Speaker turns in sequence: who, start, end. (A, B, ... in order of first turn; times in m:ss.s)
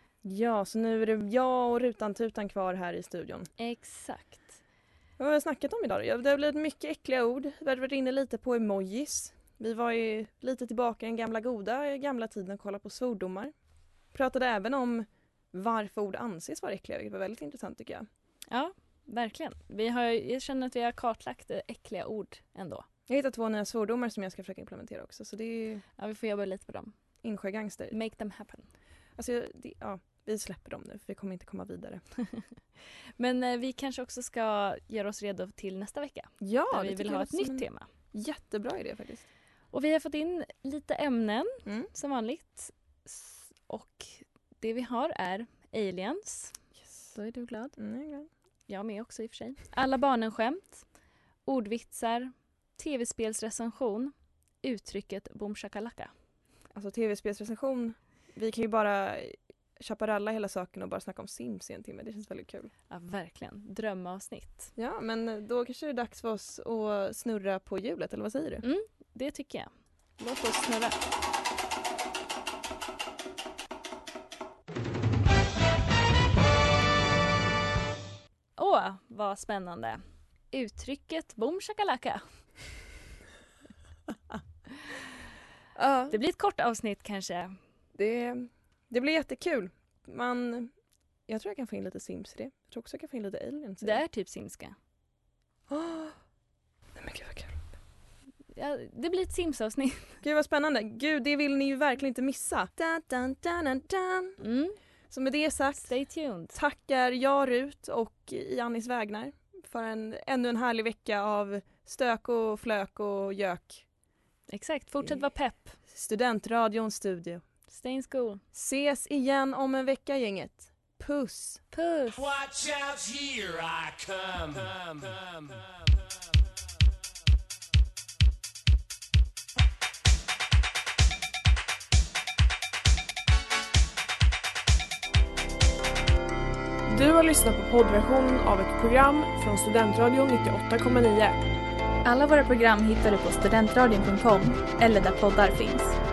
0:00.2-0:03.5 A
0:03.6-0:04.6 B
0:05.2-0:13.5 A
0:14.1-0:18.1 A
0:18.5-0:22.9 B
0:23.1-0:25.8 A
0:26.0-0:26.9 B
0:27.2-0:28.0 A
0:27.9-0:28.7 B
0:29.2-0:32.0 A
0:33.2-0:37.9 B
0:36.4-0:39.3 A
0:39.7-0:46.6 B
0:47.1-0:47.8 B
0:47.8-0:48.3 A
0:48.7-0:50.8 B
0:51.5-0:56.1 B
0:56.7-1:02.7 A
1:02.9-1:04.7 B
1:04.8-1:08.6 A
1:08.6-1:11.0 B
1:18.6-1:20.0 B
1:20.5-1:22.2 B
1:25.8-1:26.2 A
1:26.1-1:27.6 B
1:28.0-1:30.7 A
1:31.3-1:34.0 A
1:33.8-1:34.8 B
1:35.7-1:36.2 A
1:37.0-1:37.7 A
1:38.5-1:40.2 B
1:40.2-1:44.4 A
1:44.4-1:44.8 B
1:45.1-1:45.9 A
1:45.8-1:46.6 B
1:46.5-1:53.9 A
1:54.5-1:55.8 B
1:55.9-1:57.4 A
1:57.7-1:58.4 B
1:58.5-2:01.6 A
2:01.7-2:02.2 B
2:02.1-2:05.8 C
2:16.9-2:21.4 D
2:22.0-2:26.0 E